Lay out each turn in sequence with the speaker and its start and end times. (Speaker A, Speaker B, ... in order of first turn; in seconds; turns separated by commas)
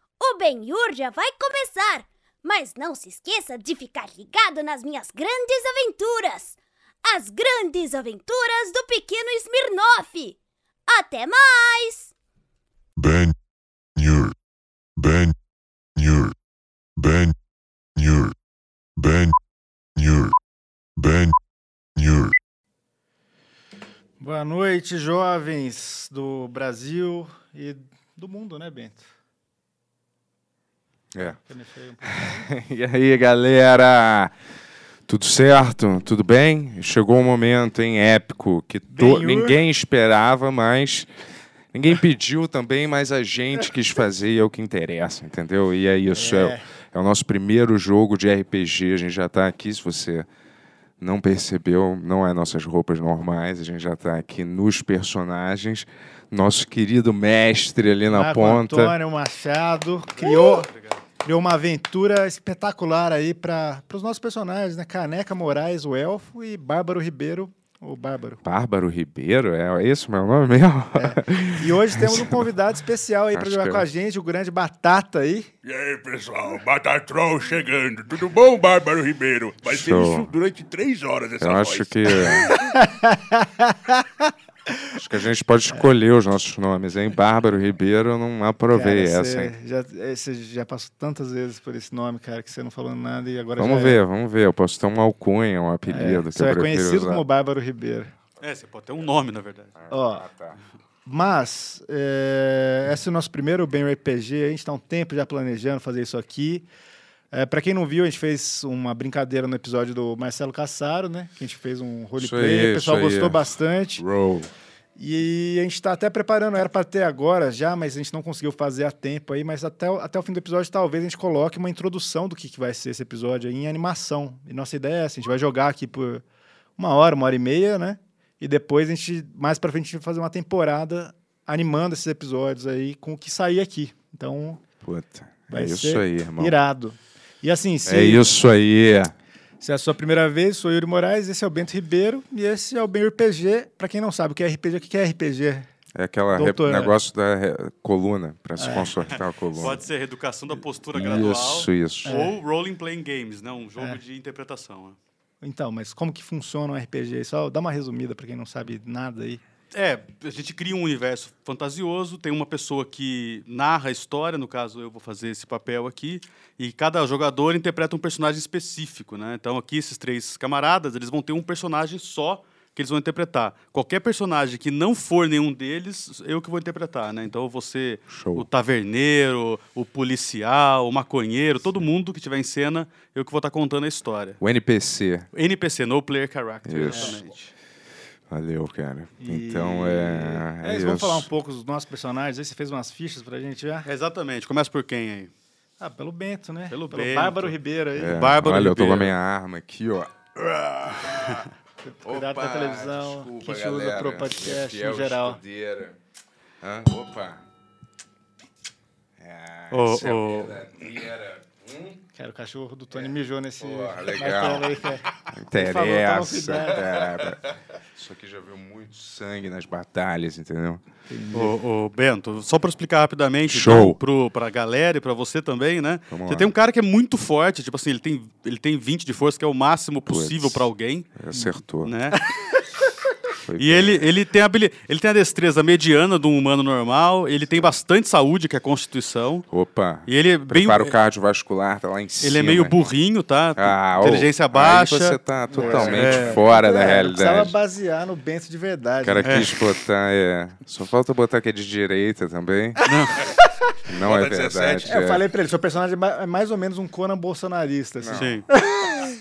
Speaker A: 0.2-10.4, Speaker A: 10.9-12.1, Speaker B: 13.0-13.3, Speaker B: 13.9-14.3, Speaker B: 15.0-15.3, Speaker B: 15.9-16.3, Speaker B: 17.0-17.3, Speaker B: 17.9-18.3, Speaker B: 19.0-19.3, Speaker B: 19.9-20.3, Speaker B: 21.0-21.3, Speaker B: 21.9-22.3, Speaker C: 24.2-29.1, Speaker C: 31.2-32.5, Speaker D: 32.0-34.3, Speaker D: 35.1-41.1, Speaker C: 38.9-39.6, Speaker D: 41.7-50.3, Speaker C: 46.1-46.6, Speaker D: 51.0-59.0, Speaker C: 58.1-60.7, Speaker E: 60.1-61.0, Speaker C: 61.2-68.4, Speaker D: 68.4-72.5, Speaker C: 71.0-75.5, Speaker D: 73.3-73.8, Speaker F: 75.6-82.6, Speaker D: 79.6-80.3, Speaker D: 81.4-82.5, Speaker C: 82.8-84.3, Speaker D: 84.9-89.5, Speaker C: 88.7-94.0, Speaker D: 93.6-97.2, Speaker C: 95.9-98.1, Speaker E: 98.4-99.7, Speaker D: 99.8-100.6, Speaker C: 99.9-100.2, Speaker C: 101.0-106.7, Speaker C: 107.3-114.0, Speaker D: 112.2-113.4, Speaker D: 114.0-114.5, Speaker C: 115.0-126.2, Speaker C: 126.8-134.6, Speaker D: 134.8-136.6, Speaker C: 135.5-138.2, Speaker D: 137.8-139.1, Speaker C: 139.6-145.7, Speaker D: 145.9-149.8, Speaker C: 146.3-146.9, Speaker C: 148.6-148.9, Speaker E: 149.6-155.0, Speaker D: 150.9-152.2, Speaker C: 152.0-152.3, Speaker C: 155.4-159.4, Speaker E: 159.7-184.4, Speaker D: 178.1-178.5, Speaker D: 184.4-185.3, Speaker E: 185.3-187.5, Speaker D: 186.6-187.2, Speaker C: 186.9-187.2, Speaker D: 188.3-191.3, Speaker C: 189.2-193.9, Speaker E: 193.8-195.3, Speaker C: 195.8-198.2, Speaker E: 196.7-199.1, Speaker D: 197.9-201.4, Speaker C: 201.8-205.4, Speaker D: 202.0-206.0, Speaker D: 206.6-207.4, Speaker D: 209.2-212.0, Speaker E: 209.7-210.6, Speaker C: 212.2-217.0, Speaker D: 212.9-214.7, Speaker D: 215.3-220.8, Speaker C: 221.1-221.5, Speaker E: 221.3-231.1, Speaker D: 223.4-224.0, Speaker D: 226.1-226.5, Speaker D: 230.1-231.9, Speaker E: 231.8-232.2, Speaker D: 233.4-234.1, Speaker E: 233.6-239.5, Speaker D: 237.5-237.7, Speaker D: 239.5-242.8, Speaker E: 240.1-240.9, Speaker E: 242.2-246.4, Speaker D: 243.6-247.5, Speaker C: 245.5-249.5, Speaker F: 245.6-246.4, Speaker D: 249.0-252.9, Speaker E: 249.2-249.5, Speaker E: 252.8-253.3, Speaker D: 253.9-255.3, Speaker F: 253.9-254.9, Speaker C: 254.8-259.1, Speaker D: 258.0-258.3, Speaker E: 258.1-258.4